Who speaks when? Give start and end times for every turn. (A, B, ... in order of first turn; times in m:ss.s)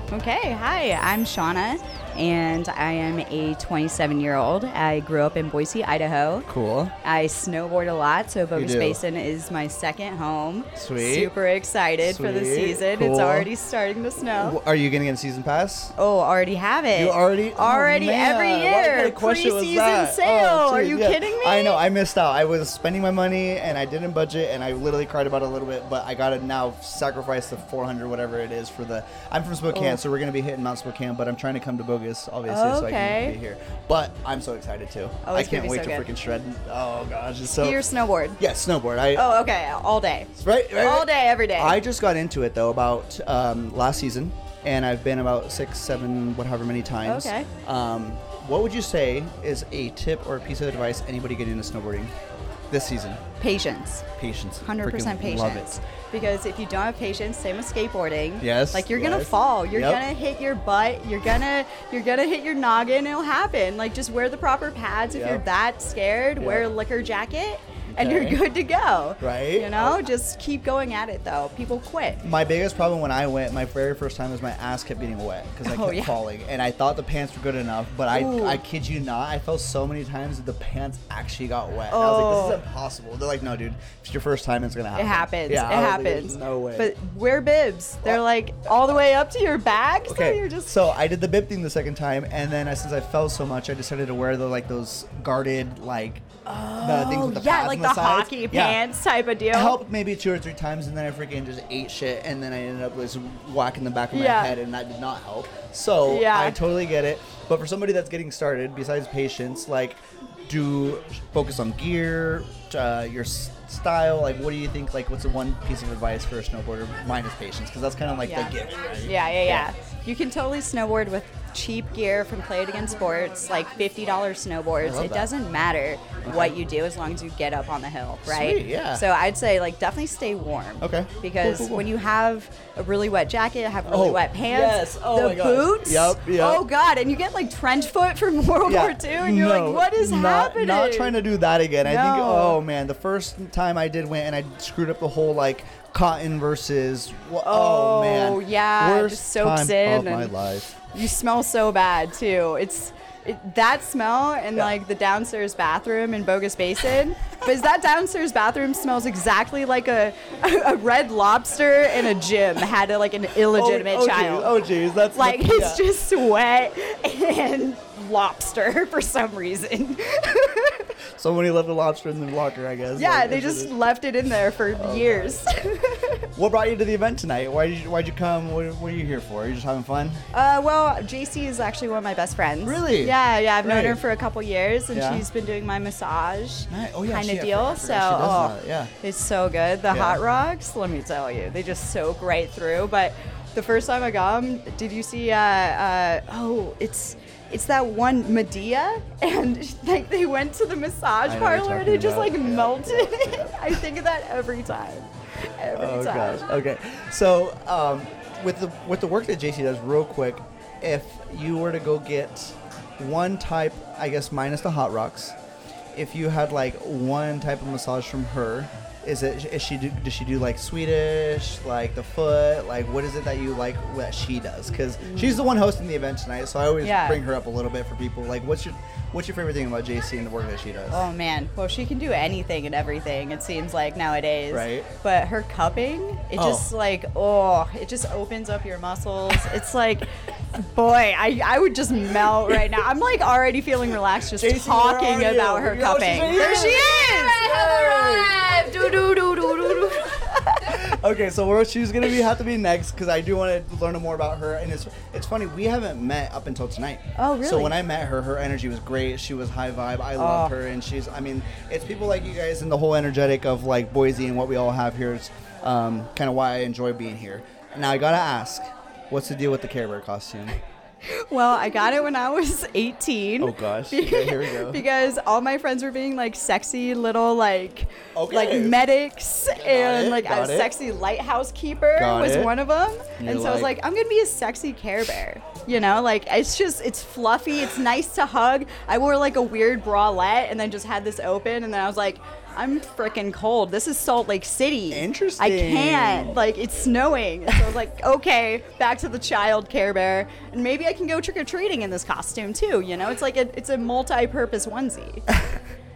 0:00.1-0:06.5 A
0:06.5-0:06.9 B
0:07.0-0:14.6 A
0:08.6-0:09.0 B
0:10.8-0:11.3 B
0:12.0-0:13.5 B
0:14.3-0:15.9 B
0:16.0-0:21.8 A
0:16.9-0:37.8 B
0:29.7-0:30.0 A
0:32.4-0:33.4 A
0:35.2-0:36.1 A
0:37.6-0:38.4 A
0:38.4-0:39.4 B
0:39.1-0:41.8 A
0:40.4-0:52.1 B
0:47.0-0:47.5 A
0:52.7-0:53.2 B
0:53.4-0:54.1 A
0:54.2-0:55.8 B
0:54.6-1:12.2 A
0:58.4-1:00.0 B
1:05.1-1:05.4 B
1:06.4-1:06.7 B
1:07.9-1:08.4 B
1:09.2-1:10.0 B
1:12.2-1:27.0 B
1:15.6-1:16.2 A
1:18.1-1:18.6 A
1:21.9-1:22.6 A
1:24.9-1:30.8 A
1:30.0-1:38.8 B
1:36.4-1:39.8 A
1:39.5-1:59.7 B
1:44.1-1:44.6 A
1:46.1-1:46.6 A
1:58.2-2:21.2 A
2:04.8-2:05.3 B
2:06.2-2:06.6 B
2:08.2-2:09.0 B
2:10.8-2:11.9 B
2:13.9-2:16.6 B
2:18.6-2:30.8 B
2:21.8-2:22.6 A
2:27.4-2:44.6 A
2:43.5-2:45.8 B
2:45.1-2:50.9 A
2:51.2-2:53.8 B
2:53.0-2:56.2 A
2:54.7-2:55.4 B
2:56.4-3:00.2 B
3:00.3-3:26.5 A
3:02.6-3:04.0 B
3:04.9-3:05.2 B
3:06.7-3:08.9 B
3:09.9-3:10.2 B
3:21.2-3:23.8 B
3:25.7-3:35.4 B
3:35.9-3:51.1 B
3:45.0-3:45.4 A
3:46.8-3:47.2 A
3:50.9-4:10.8 A
3:54.5-3:54.9 B
3:56.4-3:56.7 B
4:04.3-4:30.6 B
4:17.2-4:17.8 A
4:20.2-4:20.5 A
4:31.1-5:05.2 A
4:33.4-4:34.8 B
4:38.1-4:38.8 B
4:39.4-4:40.7 B
4:41.9-4:42.5 B
4:43.2-4:43.7 B
4:54.9-4:56.4 B
5:05.3-5:05.6 B